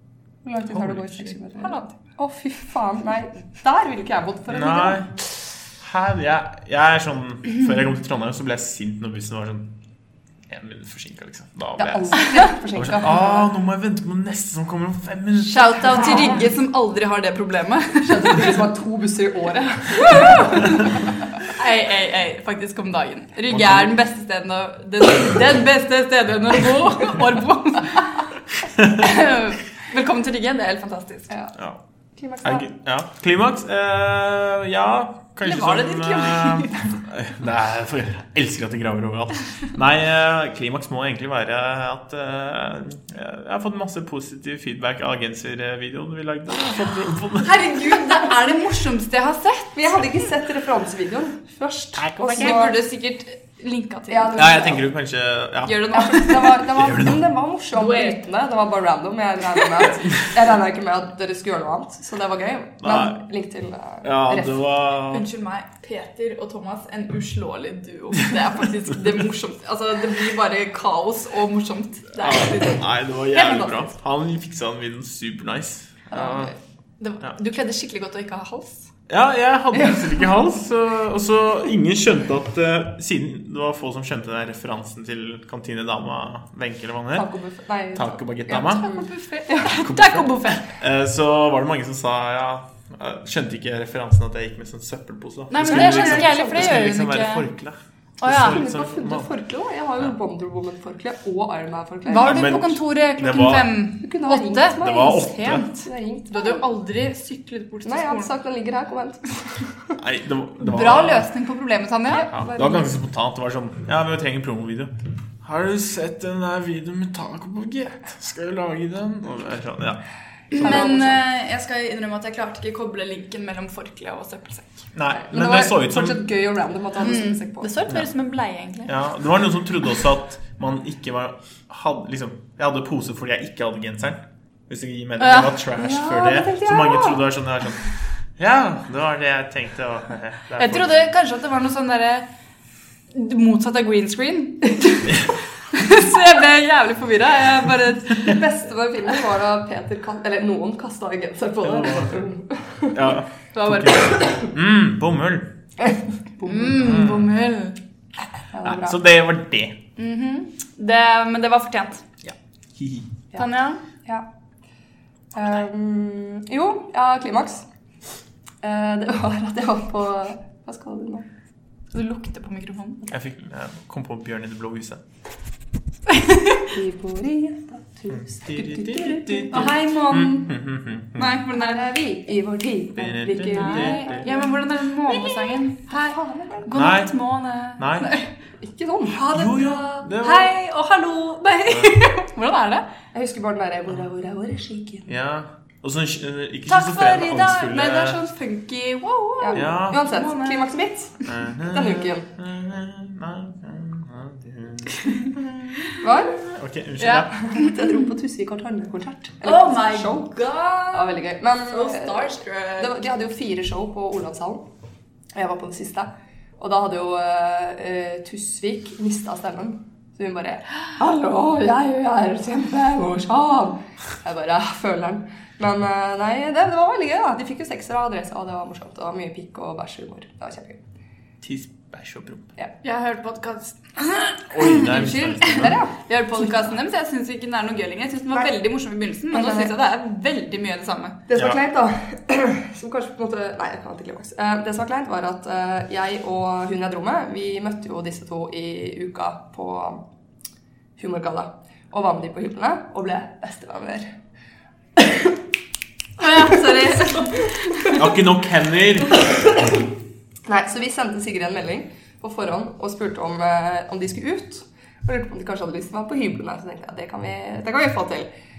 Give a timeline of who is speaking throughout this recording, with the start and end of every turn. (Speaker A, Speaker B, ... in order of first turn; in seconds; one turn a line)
Speaker A: 0.4-5.0
Speaker B: 0.7-1.4
Speaker C: 1.6-1.9
Speaker B: 4.5-5.1
Speaker B: 5.8-9.7
Speaker B: 10.5-16.4
Speaker A: 11.8-13.5
Speaker C: 15.4-18.6
Speaker A: 15.9-16.4
Speaker A: 18.1-21.0
Speaker C: 19.9-28.3
Speaker B: 23.5-23.9
Speaker C: 28.8-31.3
Speaker A: 31.3-31.6
Speaker A: 32.2-32.7
Speaker B: 32.4-48.1
Speaker C: 35.4-36.9
Speaker C: 47.4-50.0
Speaker A: 49.8-52.8
Speaker B: 52.0-52.7
Speaker C: 52.3-54.7
Speaker A: 54.1-54.9
Speaker B: 54.3-57.3
Speaker C: 55.6-56.7
Speaker A: 55.9-64.6
Speaker C: 57.7-58.2
Speaker B: 62.8-63.2
Speaker B: 64.0-65.3
Speaker C: 65.1-73.9
Speaker B: 72.2-76.5
Speaker A: 76.1-76.5
Speaker C: 77.0-78.9
Speaker B: 79.1-87.3
Speaker A: 87.1-89.8
Speaker B: 87.9-88.9
Speaker C: 88.5-90.8
Speaker B: 89.6-99.3
Speaker C: 95.5-97.5
Speaker A: 95.6-96.9
Speaker C: 98.2-98.6
Speaker A: 98.3-102.6
Speaker C: 102.1-108.3
Speaker B: 102.2-103.7
Speaker A: 104.0-105.2
Speaker B: 104.8-105.7
Speaker A: 105.8-106.6
Speaker A: 107.8-110.0
Speaker B: 110.0-111.3
Speaker C: 110.6-112.3
Speaker A: 112.1-112.9
Speaker B: 112.2-114.9
Speaker B: 115.4-120.0
Speaker C: 120.5-124.8
Speaker A: 120.6-121.2
Speaker B: 124.9-126.2
Speaker A: 125.1-127.7
Speaker C: 127.0-128.9
Speaker B: 128.9-137.9
Speaker C: 135.2-135.6
Speaker A: 135.8-137.3
Speaker B: 138.4-141.1
Speaker C: 140.6-142.3
Speaker C: 143.1-148.4
Speaker A: 148.2-153.2
Speaker B: 151.6-152.3
Speaker B: 152.9-155.5
Speaker C: 153.5-154.5
Speaker A: 155.8-156.8
Speaker C: 156.4-157.8
Speaker B: 156.7-157.3
Speaker A: 158.5-159.0
Speaker B: 158.6-159.8
Speaker C: 159.9-162.0
Speaker B: 162.2-163.1
Speaker C: 163.3-163.8
Speaker A: 165.3-167.7
Speaker A: 168.6-171.3
Speaker C: 171.9-173.1
Speaker B: 173.1-175.0
Speaker C: 176.1-176.7
Speaker A: 176.7-179.8
Speaker B: 178.1-181.4
Speaker C: 179.5-180.6
Speaker C: 181.2-181.9
Speaker A: 181.5-184.6
Speaker B: 182.9-184.3
Speaker C: 183.5-188.3
Speaker A: 185.1-186.7
Speaker B: 186.7-188.1
Speaker A: 188.6-189.3
Speaker C: 189.1-192.9
Speaker B: 189.3-190.5
Speaker B: 191.7-192.0
Speaker A: 193.1-195.1
Speaker B: 195.1-198.2
Speaker C: 196.7-200.8
Speaker A: 199.4-202.3
Speaker B: 199.6-200.0
Speaker B: 201.2-205.4
Speaker C: 205.0-206.3
Speaker A: 206.0-206.4
Speaker B: 206.5-207.4
Speaker C: 207.0-208.1
Speaker A: 207.3-210.3
Speaker C: 209.4-213.0
Speaker A: 210.9-214.7
Speaker A: 215.3-230.8
Speaker B: 231.4-232.5
Speaker C: 232.8-241.2
Speaker B: 234.5-235.8
Speaker A: 234.7-236.7
Speaker A: 239.3-239.7
Speaker A: 241.3-250.1
Speaker A: 251.0-254.2
Speaker A: 254.9-255.4
Speaker C: 256.2-257.9
Speaker A: 256.2-258.2
Speaker B: 257.9-259.3
Speaker A: 259.1-259.9
Speaker A: 260.4-268.3